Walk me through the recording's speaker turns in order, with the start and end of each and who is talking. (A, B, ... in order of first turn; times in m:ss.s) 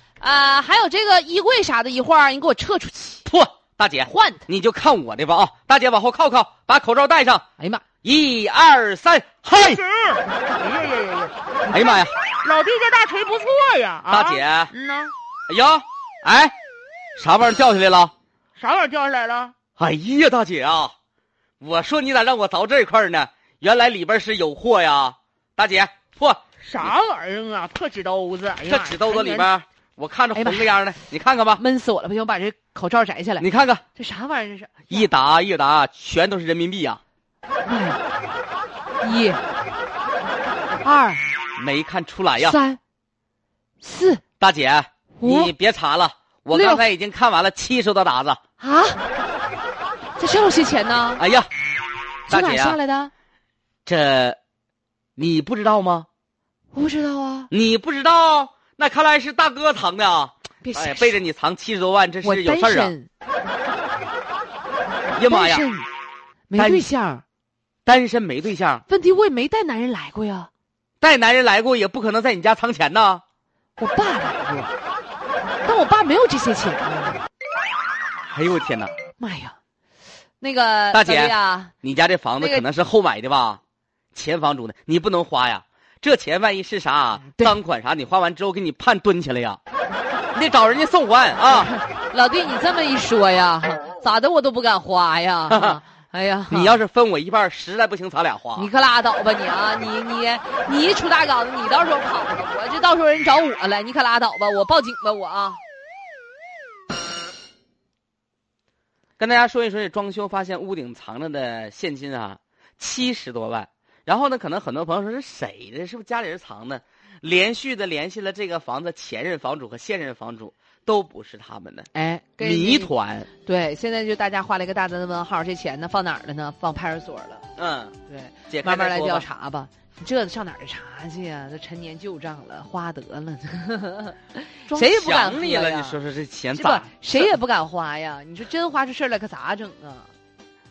0:00.2-0:03.2 A
0:03.2-0:07.4 B
0:07.6-0:07.8 A
0:08.0-0:09.8 B
0:09.6-0:11.7 C
0:11.7-0:12.1 B
0:12.4-0:15.1 C
0:14.1-0:14.7 B
0:15.5-0:16.5 B
0:17.2-0:18.1 B
0:18.6-0:19.5 C
0:19.8-0:20.9 B
0:21.6-0:26.4 B
0:26.6-0:29.5 C
0:28.6-0:31.6 B
0:30.3-0:30.8 A
0:31.6-0:35.1 A
0:33.4-0:33.8 B
0:34.9-0:37.0 B
0:37.6-0:38.0 A
0:39.0-0:39.4 A
0:40.8-0:41.2 A
0:41.6-0:42.6 B
0:42.4-0:42.8 A
0:43.8-0:44.2 A
0:44.4-0:48.4 B
0:45.2-0:45.5 A
0:46.5-0:46.8 A
0:48.6-0:49.0 A
0:50.2-0:51.2 A
0:51.2-0:51.5 B
0:52.3-0:53.1 A
0:52.3-0:52.8 B
0:53.8-0:54.4 B
0:55.2-0:56.1 B
0:56.7-0:57.5 A
0:57.5-1:02.9 B
1:00.6-1:01.2 A
1:02.2-1:03.1 A
1:05.1-1:05.7 B
1:05.2-1:05.8 A
1:06.5-1:07.2 A
1:06.6-1:06.8 B
1:07.8-1:08.8 B
1:08.9-1:10.5 A
1:11.0-1:13.2 B
1:13.8-1:14.7 A
1:15.6-1:17.2 A
1:18.3-1:18.9 B
1:19.2-1:19.6 A
1:20.4-1:21.7 A
1:20.9-1:23.6 B
1:22.4-1:22.6 A
1:24.1-1:29.6 B
1:27.2-1:27.6 A
1:30.3-1:31.7 B
1:31.5-1:36.8 A
1:35.5-1:35.8 B
1:36.5-1:38.7 B
1:38.6-1:45.6 A
1:49.2-2:01.9 B
2:01.9-2:07.4 A
2:02.4-2:03.3 B
2:07.6-2:07.9 B
2:08.1-2:16.0 A
2:08.5-2:09.2 B
2:14.7-2:17.3 B
2:16.5-2:20.1 A